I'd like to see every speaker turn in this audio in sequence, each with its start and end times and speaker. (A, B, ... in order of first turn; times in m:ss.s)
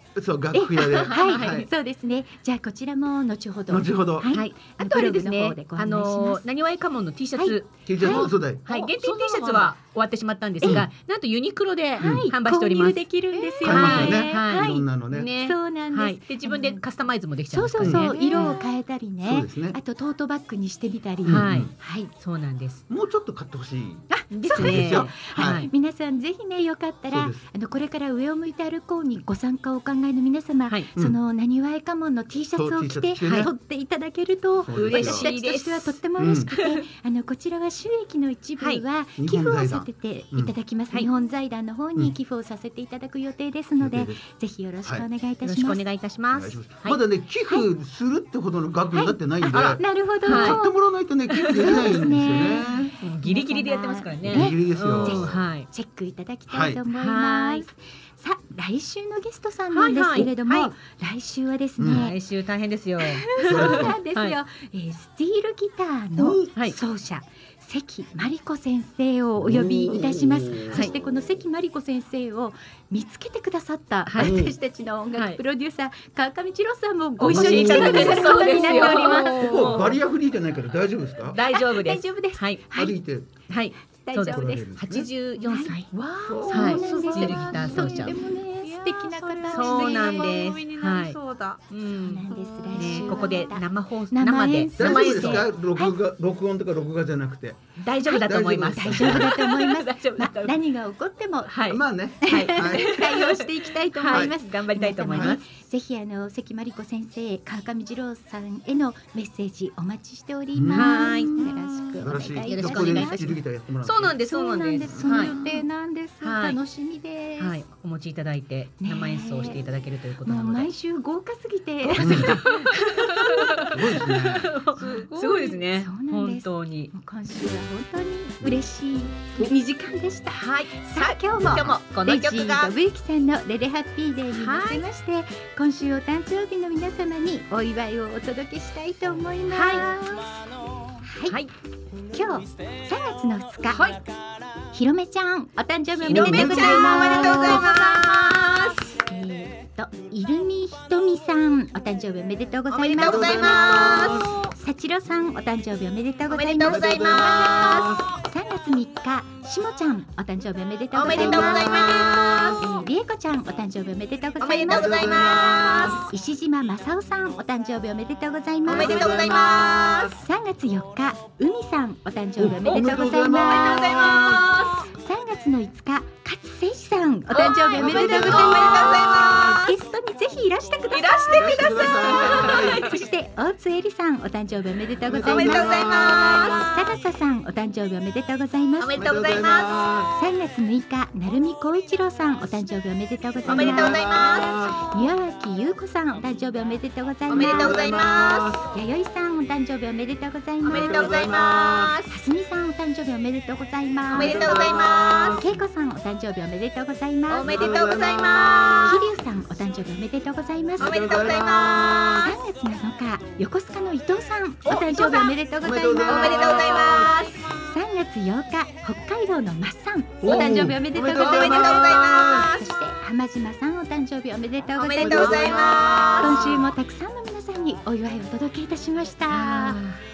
0:00.1-0:01.7 A
0:00.5-0:06.4 B
0:01.0-0:01.7 C
0:03.7-0:04.3 A
0:04.3-0:13.0 C
0:07.3-0:09.7 B
0:07.8-0:08.6 A
0:12.0-0:22.1 B
0:12.0-0:12.3 A
0:13.3-0:13.8 D
0:13.6-0:15.3 A
0:13.7-0:18.6 C
0:17.8-0:18.1 A
0:18.0-0:18.6 D
0:19.2-0:19.8 A
0:21.2-0:21.7 A
0:21.3-0:22.8 C
0:22.9-0:25.7 A
0:24.1-0:45.9 B
0:24.3-0:25.7 C
0:27.1-0:27.4 A
0:32.6-0:33.5 A
0:34.6-0:35.3 A
0:34.7-0:36.8 C
0:36.2-0:36.5 A
0:39.2-0:40.5 A
0:43.8-0:44.2 A
0:45.4-0:47.0 C
0:46.3-0:52.9 A
0:48.9-0:50.8 B
0:49.5-0:50.6 C
0:51.3-1:02.2 B
0:51.3-0:55.7 C
0:54.2-0:55.5 A
0:56.5-0:56.8 A
0:56.9-0:57.6 C
0:59.7-1:00.7 C
1:01.8-1:02.1 A
1:01.9-1:04.4 C
1:03.0-1:19.8 B
1:03.3-1:04.0 A
1:09.4-1:11.0 A
1:14.1-1:14.3 C
1:14.2-1:14.6 A
1:17.2-1:20.0 C
1:17.3-1:21.4 A
1:19.2-1:19.8 D
1:21.3-1:22.6 C
1:21.4-1:23.0 B
1:22.7-1:23.3 A
1:23.5-1:25.8 C
1:24.0-1:24.6 B
1:24.3-1:25.1 A
1:25.4-1:30.5 B
1:25.9-1:31.6 D
1:26.5-1:28.2 C
1:29.5-1:31.2 C
1:31.7-1:35.5 C
1:32.0-1:35.9 B
1:32.3-1:33.5 D
1:34.8-1:39.3 A
1:37.8-1:40.6 C
1:38.1-1:53.3 B
1:41.5-1:45.4 C
1:41.7-1:43.1 A
1:44.1-1:44.4 A
1:45.1-1:45.4 A
1:50.5-1:51.3 A
1:50.7-1:55.6 C
1:52.0-1:54.2 A
1:54.2-1:57.6 B
1:54.8-1:55.1 A
1:56.2-1:56.6 C
1:57.4-2:00.7 C
1:58.8-1:59.6 B
2:00.2-2:02.7 B
2:01.9-2:06.9 C
2:02.0-2:02.4 A
2:03.7-2:04.5 A
2:04.7-2:20.5 B
2:04.8-2:05.6 D
2:10.3-2:12.7 C
2:14.4-2:14.8 C
2:19.5-2:19.9 C
2:21.0-2:21.4 B
2:22.1-2:23.9 B
2:24.7-2:27.9 B
2:26.0-2:28.9 C
2:26.1-2:27.4 A
2:29.0-2:41.9 B
2:32.7-2:34.2 C
2:32.9-2:34.4 A
2:36.3-2:37.9 C
2:36.6-2:38.2 A
2:40.9-2:42.6 C
2:41.1-2:42.6 A
2:42.6-2:54.3 B
2:44.4-2:46.0 C
2:44.6-2:46.0 A
2:48.6-2:50.2 A
2:48.7-2:50.1 C
2:52.4-2:54.5 A
2:52.7-2:54.9 C
2:54.8-3:09.1 B
2:57.3-2:59.7 C
2:57.8-2:59.6 A
3:00.9-3:03.0 C
3:01.3-3:02.8 A
3:05.0-3:06.6 A
3:05.1-3:06.9 C
3:08.8-3:09.9 C
3:09.0-3:10.1 A
3:10.1-3:17.8 B
3:13.4-3:14.9 A
3:13.5-3:14.6 C
3:17.3-3:18.5 C
3:17.3-3:18.6 A
3:18.6-3:21.0 B
3:20.6-3:22.0 C
3:20.7-3:22.0 A
3:22.1-3:27.8 B
3:24.1-3:25.5 A
3:24.1-3:25.4 C
3:27.3-3:29.0 C
3:27.4-3:29.0 A
3:28.8-3:31.3 B
3:30.8-3:32.3 A
3:30.8-3:32.3 C
3:32.2-3:49.8 B
3:34.6-3:35.3 C
3:35.6-3:37.1 A
3:36.0-3:37.4 C
3:40.2-3:42.5 A
3:40.3-3:42.6 C
3:44.8-3:46.7 C
3:45.0-3:46.2 A
3:49.3-3:50.0 C